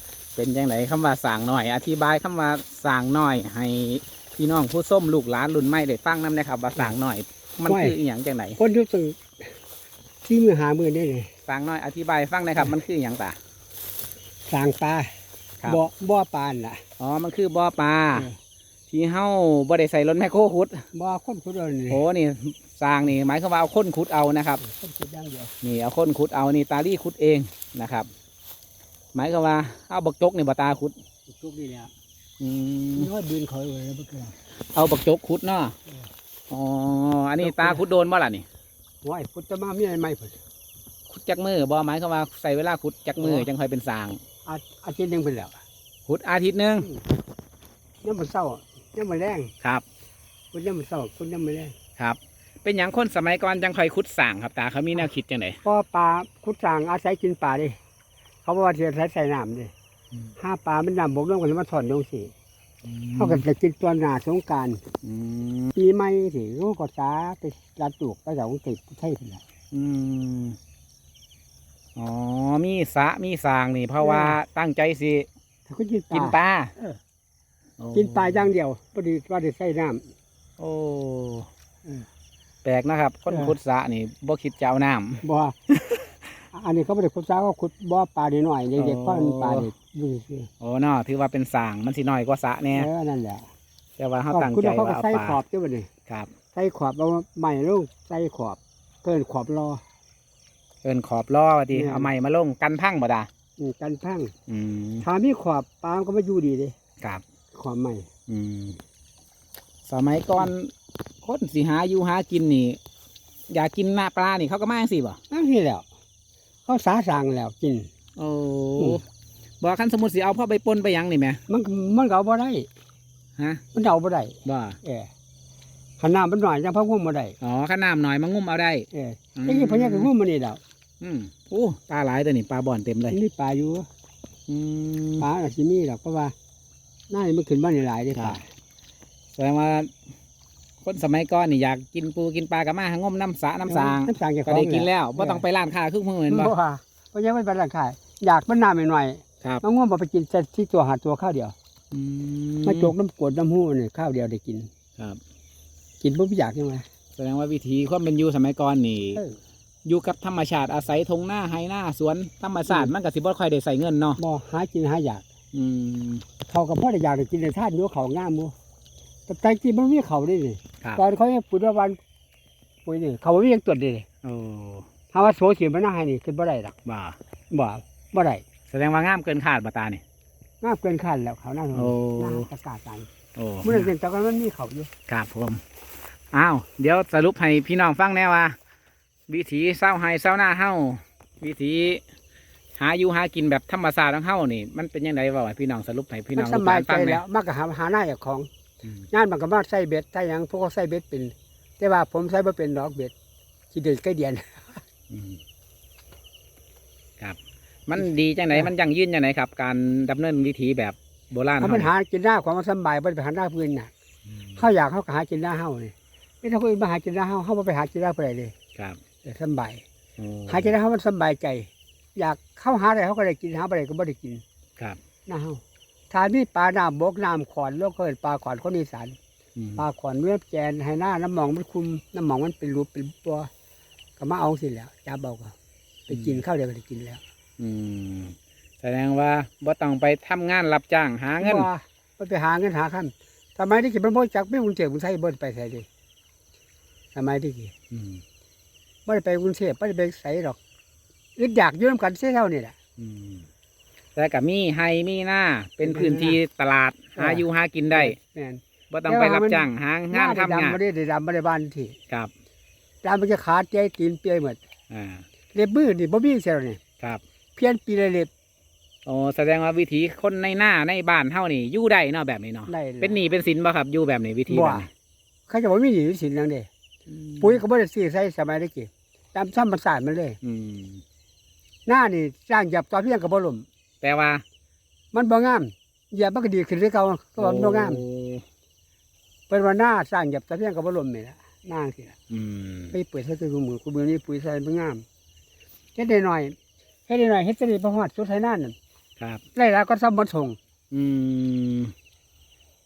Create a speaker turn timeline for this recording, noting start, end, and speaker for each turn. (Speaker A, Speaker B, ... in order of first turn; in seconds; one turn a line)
Speaker A: 0.3-8.6
Speaker B: 7.7-8.0
Speaker B: 8.6-9.6
Speaker B: 10.2-11.3
Speaker A: 11.5-13.4
Speaker B: 14.5-16.8
Speaker A: 17.0-18.3
Speaker A: 18.9-20.9
Speaker B: 20.9-22.0
Speaker A: 21.9-24.6
Speaker B: 24.6-25.5
Speaker A: 25.6-28.1
Speaker A: 29.1-31.0
Speaker B: 31.3-31.9
Speaker A: 32.4-33.1
Speaker B: 33.0-34.4
Speaker A: 34.7-35.8
Speaker A: 36.5-38.5
Speaker B: 37.4-37.9
Speaker B: 39.0-40.4
Speaker A: 41.1-44.2
Speaker B: 43.2-43.5
Speaker B: 44.5-45.6
Speaker A: 46.1-46.9
Speaker B: 48.0-49.5
Speaker B: 50.5-51.8
Speaker A: 52.0-55.6
Speaker B: 55.6-57.8
Speaker B: 58.5-59.7
Speaker B: 60.4-62.3
Speaker A: 62.8-63.4
Speaker B: 63.2-64.8
Speaker A: 65.0-65.7
Speaker B: 65.7-69.4
Speaker A: 69.7-70.6
Speaker A: 72.0-75.3
Speaker B: 74.0-74.4
Speaker B: 75.7-77.0
Speaker A: 76.1-76.7
Speaker A: 77.8-78.5
Speaker B: 77.9-80.1
Speaker A: 80.6-81.5
Speaker A: 82.6-86.1
Speaker B: 83.3-83.5
Speaker B: 85.2-85.6
Speaker B: 86.5-90.5
Speaker A: 88.8-89.7
Speaker A: 90.6-92.9
Speaker B: 92.7-93.5
Speaker A: 94.0-95.4
Speaker B: 94.3-95.9
Speaker A: 96.1-96.3
Speaker B: 96.5-99.8
Speaker A: 100.8-103.3
Speaker B: 101.7-102.1
Speaker B: 103.6-104.3
Speaker A: 104.5-105.1
Speaker B: 105.0-106.8
Speaker B: 107.5-108.1
Speaker A: 108.3-108.8
Speaker A: 109.8-110.7
Speaker A: 111.2-112.8
Speaker A: 113.5-115.2
Speaker B: 115.3-115.9
Speaker B: 116.7-117.9
Speaker A: 118.2-119.0
Speaker A: 119.6-121.4
Speaker B: 121.5-122.7
Speaker A: 123.4-123.6
Speaker B: 123.7-125.1
Speaker A: 124.5-124.8
Speaker B: 126.0-127.3
Speaker A: 127.4-130.1
Speaker B: 128.9-130.6
Speaker A: 131.0-133.2
Speaker B: 133.1-133.9
Speaker A: 134.5-135.3
Speaker B: 135.2-136.3
Speaker B: 137.1-138.5
Speaker A: 139.3-139.9
Speaker A: 140.8-146.5
Speaker B: 143.7-145.4
Speaker B: 146.3-151.6
Speaker A: 151.9-152.9
Speaker B: 152.6-154.7
Speaker B: 156.0-156.8
Speaker A: 157.1-159.2
Speaker B: 159.1-159.4
Speaker A: 159.8-164.2
Speaker B: 164.2-165.2
Speaker A: 165.5-166.2
Speaker B: 166.5-168.5
Speaker B: 169.3-172.0
Speaker B: 172.9-174.1
Speaker A: 174.2-174.9
Speaker B: 175.1-176.8
Speaker A: 176.8-177.2
Speaker B: 177.5-178.4
Speaker A: 178.7-180.0
Speaker B: 180.6-183.1
Speaker A: 181.7-182.5
Speaker A: 183.3-183.9
Speaker B: 183.6-184.9
Speaker A: 185.1-185.6
Speaker A: 186.3-188.6
Speaker A: 189.3-192.0
Speaker A: 192.8-197.2
Speaker B: 196.4-198.5
Speaker B: 199.1-203.1
Speaker B: 203.7-204.8
Speaker A: 205.1-205.4
Speaker A: 207.2-211.9
Speaker B: 208.0-208.7
Speaker B: 211.6-213.9
Speaker A: 214.3-214.6
Speaker B: 214.6-218.5
Speaker B: 219.2-219.8
Speaker A: 220.2-220.7
Speaker B: 220.5-224.4
Speaker B: 225.3-229.2
Speaker A: 229.6-229.8
Speaker B: 229.8-233.5
Speaker B: 234.2-235.5
Speaker B: 236.1-237.2
Speaker A: 236.1-236.4
Speaker A: 237.6-241.7
Speaker B: 241.4-245.9
Speaker B: 247.1-247.7
Speaker A: 247.9-248.2
Speaker B: 249.1-250.6
Speaker B: 251.4-252.8
Speaker A: 253.0-253.5
Speaker A: 254.2-258.2
Speaker B: 255.8-256.4
Speaker B: 257.1-261.9
Speaker A: 258.9-260.8
Speaker B: 263.0-264.6
Speaker A: 264.9-265.2
Speaker B: 265.5-266.8
Speaker B: 267.6-268.3
Speaker A: 269.1-274.9
Speaker B: 272.7-273.2
Speaker B: 274.5-274.9
Speaker B: 275.5-276.7
Speaker A: 277.1-277.6
Speaker B: 277.4-280.4
Speaker A: 280.4-281.0
Speaker B: 281.9-283.6
Speaker A: 284.0-284.4
Speaker B: 285.1-288.0
Speaker A: 287.4-288.4
Speaker B: 289.5-292.1
Speaker A: 292.3-292.9
Speaker B: 292.9-295.0
Speaker B: 295.9-296.6
Speaker B: 297.1-298.8
Speaker B: 299.6-300.6
Speaker A: 300.9-301.9